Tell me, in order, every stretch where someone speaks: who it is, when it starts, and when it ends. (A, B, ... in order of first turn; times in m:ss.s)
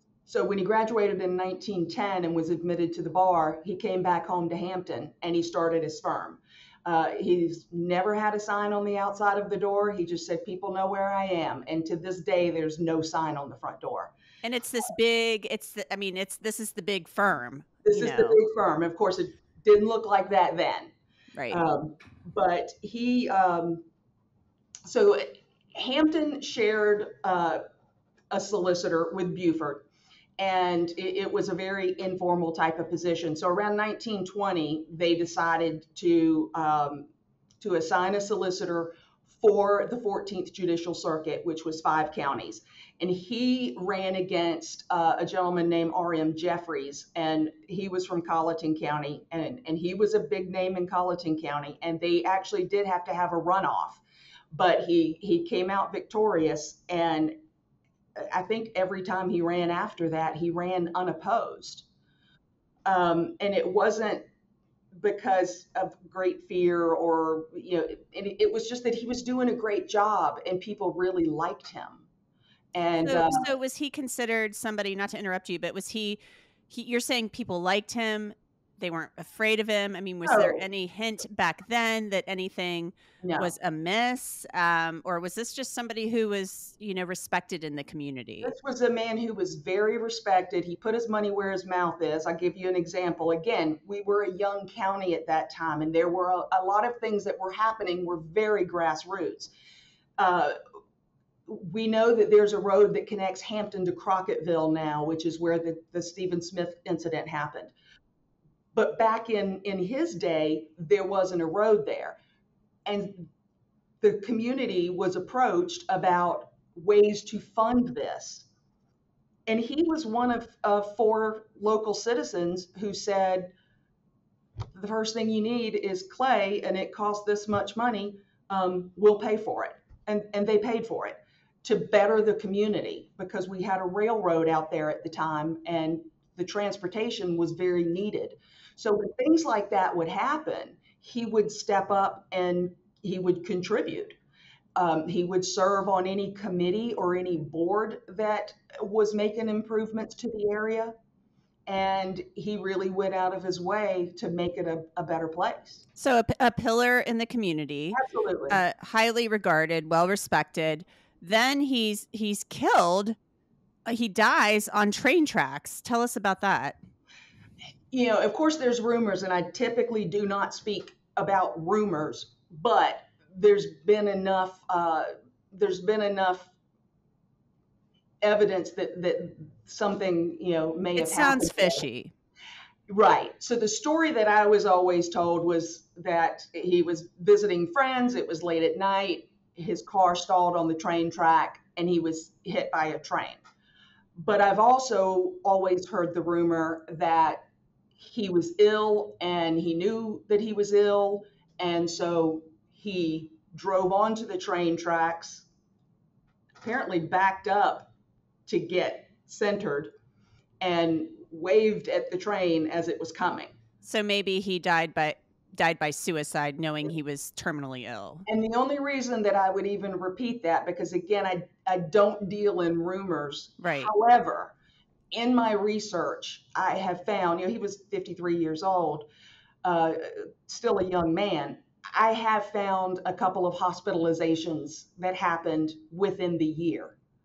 0:00.2-0:14.1 A
0:14.4-0:18.4 B
0:17.8-0:20.9 A
0:21.5-0:23.8 A
0:24.8-0:27.6 A
0:28.3-0:29.8 A
0:30.4-0:37.1 A
0:37.6-0:54.0 A
0:54.5-0:57.4 A
0:58.2-1:01.8 A
1:02.8-1:04.2 A
1:04.9-1:12.0 A
1:12.7-1:13.5 A
1:12.9-1:28.5 B
1:20.2-1:20.6 A
1:23.2-1:23.5 A
1:28.4-1:39.5 A
1:40.2-1:40.6 A
1:41.5-1:47.7 A
1:48.7-1:52.2 A
1:52.8-1:53.3 A
1:54.0-1:58.4 A
1:59.5-2:03.5 A
2:04.7-2:24.2 A
2:24.8-2:30.9 A
2:31.7-2:35.8 A
2:36.0-2:43.2 B
2:37.9-2:38.6 A
2:43.8-2:46.8 B
2:47.9-2:56.5 A
2:58.2-3:01.8 A
3:01.0-3:02.1 B
3:02.9-3:13.4 A
3:14.2-3:17.4 A
3:18.0-3:25.4 A
3:26.6-3:27.9 A
3:28.5-3:29.9 A
3:30.6-3:33.5 A
3:33.8-3:38.2 B
3:38.3-3:44.5 A
3:43.6-3:43.9 B
3:45.1-3:49.0 A
3:49.6-3:57.0 A